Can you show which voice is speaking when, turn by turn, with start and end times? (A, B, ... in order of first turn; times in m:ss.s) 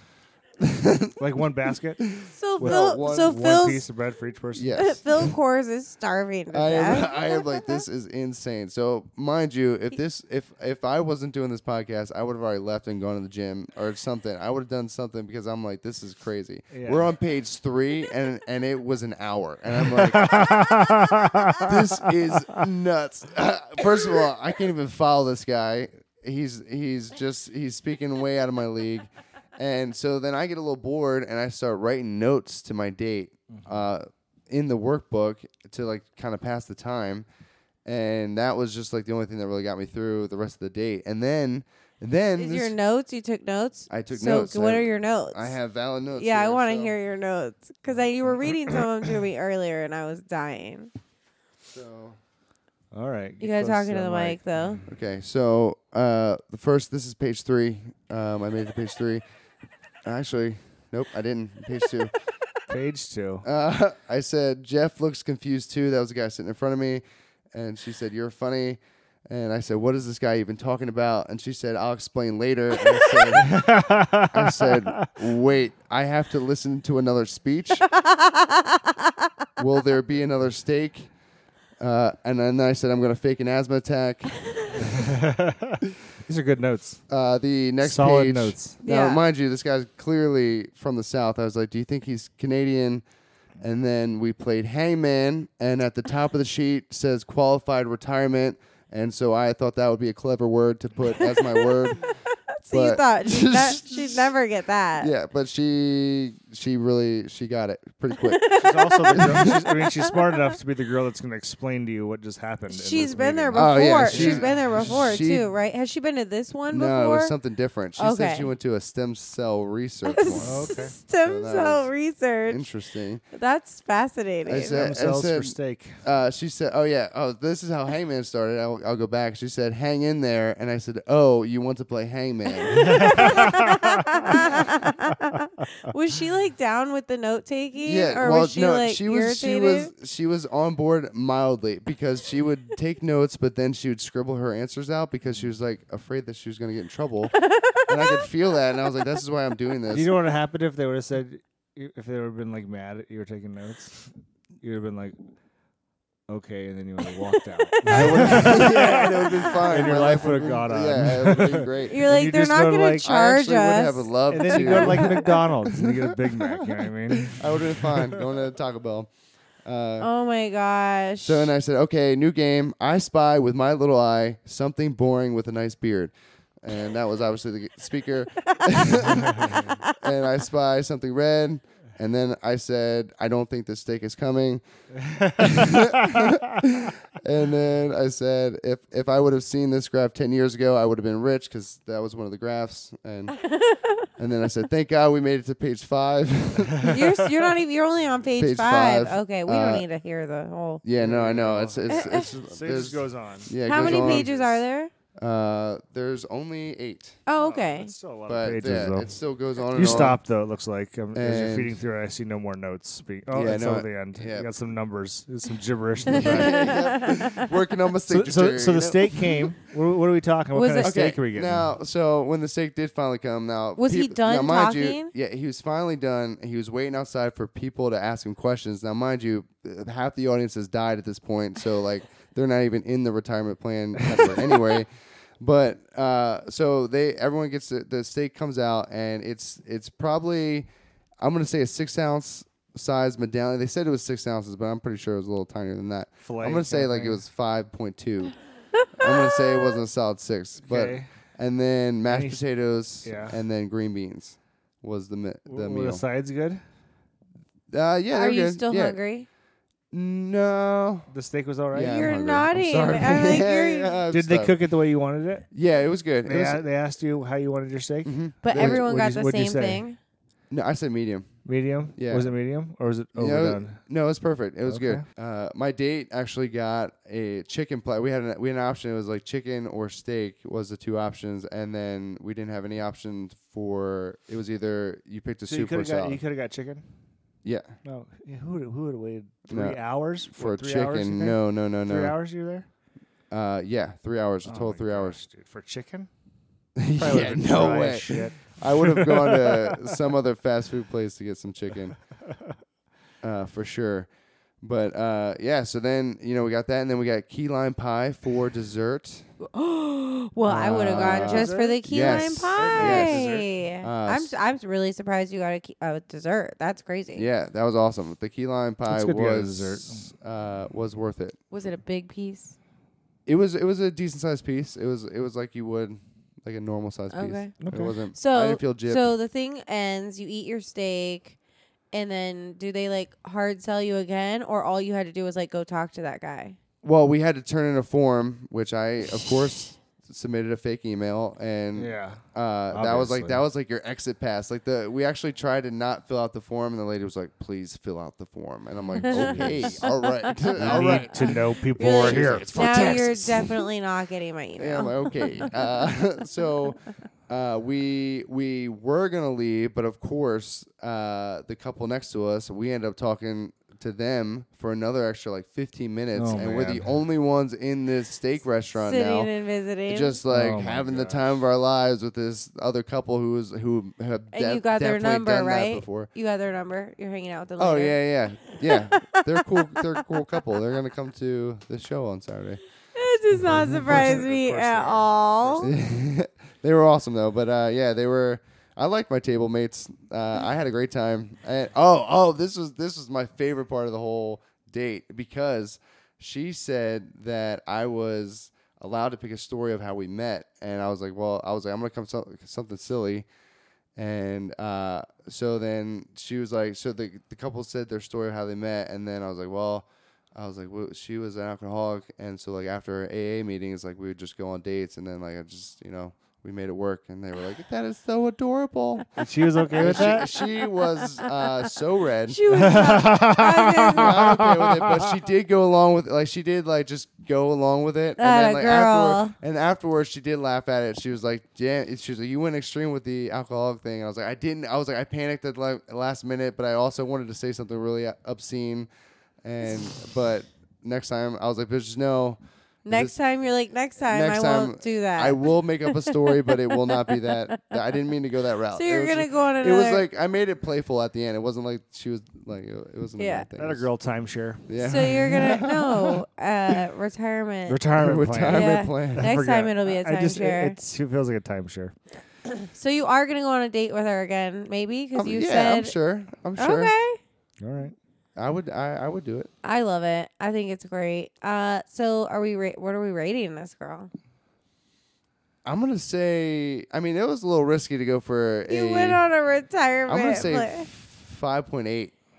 0:00.6-0:01.2 A
0:01.2-0:04.9 B
0:02.1-0:03.4 A
0:02.3-0:03.8 C
0:04.6-0:05.3 A
0:04.7-0:07.8 C
0:06.5-0:20.8 A
0:16.7-0:17.1 B
0:20.1-0:22.4 B
0:21.6-0:37.3 A
0:33.5-0:33.9 B
0:37.9-0:42.8 A
0:42.4-0:45.6 C
0:43.9-0:47.0 A
0:46.1-0:50.9 C
0:51.7-0:52.2 A
0:52.9-0:54.8 B
0:53.4-0:54.8 C
0:54.9-0:59.2 A
1:00.0-1:02.1 A
1:02.7-1:03.5 B
1:03.4-1:13.6 A
1:13.4-1:15.1 B
1:14.3-1:17.8 A
1:17.9-1:19.1 C
1:19.6-1:21.1 A
1:21.8-1:24.4 A
1:24.9-1:25.5 B
1:26.2-1:27.0 B
1:27.1-1:33.0 A
1:27.8-1:28.8 B
1:28.8-1:29.2 C
1:33.6-1:42.1 A
1:41.1-1:45.1 C
1:42.7-1:44.3 A
1:45.0-1:48.5 A
1:48.2-1:50.4 C
1:48.5-1:54.9 B
1:49.2-1:49.6 A
1:52.7-1:57.4 C
1:53.5-1:55.5 A
1:56.7-2:00.7 A
1:58.0-1:58.5 C
2:00.1-2:02.7 C
2:00.4-2:01.0 B
2:01.2-2:01.9 A
2:02.5-2:03.2 A
2:03.3-2:04.8 C
2:04.5-2:13.4 A
2:04.7-2:06.0 B
2:12.7-2:19.9 C
2:12.9-2:13.9 B
2:17.8-2:30.1 A
2:27.4-2:28.2 C
2:29.9-2:35.2 B
2:36.3-2:43.1 B
2:37.7-2:39.5 C
2:37.9-2:42.0 A
2:41.9-2:45.4 C
2:43.0-2:45.2 A
2:44.3-2:48.1 B
2:45.8-2:46.7 A
2:47.2-2:49.1 A
2:49.6-2:50.1 A
2:50.0-2:51.5 C
2:51.2-3:04.6 A
2:59.4-2:59.7 B
2:59.4-3:00.0 C
3:05.1-3:06.3 B
3:05.4-3:13.4 A
3:13.4-3:14.1 C
3:14.2-3:17.2 A
3:16.8-3:20.8 C
3:18.4-3:19.9 A
3:20.8-3:24.3 A
3:21.0-3:24.6 B
3:21.9-3:22.3 C
3:23.6-3:24.9 C
3:25.2-3:27.2 A
3:27.3-3:27.9 C
3:27.4-3:29.2 B
3:28.3-3:30.2 A
3:29.7-3:36.8 B
3:31.1-3:31.7 A
3:33.3-3:34.5 A
3:36.1-3:39.5 A
3:36.1-3:37.5 C
3:38.1-3:41.8 B
3:40.5-3:41.0 C
3:40.8-3:54.9 A
3:43.8-3:45.1 C
3:55.4-4:00.7 A
4:01.2-4:08.4 A
4:06.2-4:07.2 B
4:08.9-4:16.0 A
4:10.6-4:11.1 B
4:12.0-4:12.4 B
4:13.0-4:13.4 B
4:15.5-4:16.6 B
4:17.7-4:19.0 A
4:18.1-4:19.3 C
4:19.9-4:21.1 A
4:21.1-4:22.1 B
4:21.7-4:24.6 A
4:21.8-4:24.0 C
4:24.1-4:25.5 B
4:25.5-4:26.6 A
4:26.2-4:29.9 B
4:28.0-4:28.8 A
4:28.4-4:30.0 C
4:30.5-4:31.3 A
4:31.4-4:33.8 B
4:32.0-4:32.3 A
4:33.2-4:46.2 A
4:34.7-4:35.0 B
4:45.5-4:46.9 B
4:47.4-4:47.8 A
4:47.8-4:52.7 B
4:49.5-4:49.8 A
4:50.3-4:52.2 A
4:53.3-4:55.2 A
4:54.4-4:56.1 B
4:56.8-5:02.0 A
4:57.0-4:59.8 B
5:03.2-5:04.1 A
5:04.6-5:09.3 A
5:09.4-5:17.3 C
5:10.4-5:14.3 A
5:10.8-5:13.5 B
5:17.2-5:21.4 A
5:18.9-5:20.1 B
5:21.5-5:22.6 C
5:23.3-5:29.1 A
5:27.1-5:31.4 C
5:27.6-5:28.0 B
5:31.9-5:36.6 C
5:36.8-5:53.7 A
5:41.8-5:43.4 B
5:49.0-5:55.7 C
5:49.0-5:49.9 B
5:50.6-5:52.5 B
5:54.6-6:09.3 A
6:06.2-6:06.9 B
6:08.8-6:10.2 C
6:09.9-6:16.1 A
6:10.3-6:11.3 B
6:14.3-6:20.4 C
6:17.6-6:22.6 A
6:23.0-6:25.7 C
6:23.3-6:25.8 B
6:25.6-6:43.3 A
6:44.0-6:59.1 A
6:59.2-7:00.3 B
6:59.7-7:02.4 A
7:02.3-7:04.2 C
7:02.5-7:05.2 B
7:03.9-7:18.9 A
7:08.2-7:09.4 C
7:19.4-7:23.2 A
7:22.8-7:27.6 C
7:24.1-7:33.9 A
7:28.7-7:30.1 C
7:33.2-7:33.5 C
7:33.6-7:34.7 B
7:34.7-7:36.2 A
7:34.8-7:37.9 C
7:37.7-7:42.0 B
7:38.0-7:39.3 A
7:38.5-7:40.8 C
7:42.7-7:46.0 C
7:45.2-7:46.9 A
7:46.6-7:47.2 C
7:47.6-7:48.0 B
7:48.4-7:49.5 A
7:49.6-7:54.1 C
7:55.6-7:59.3 A
7:58.7-8:00.9 C
8:00.1-8:02.1 A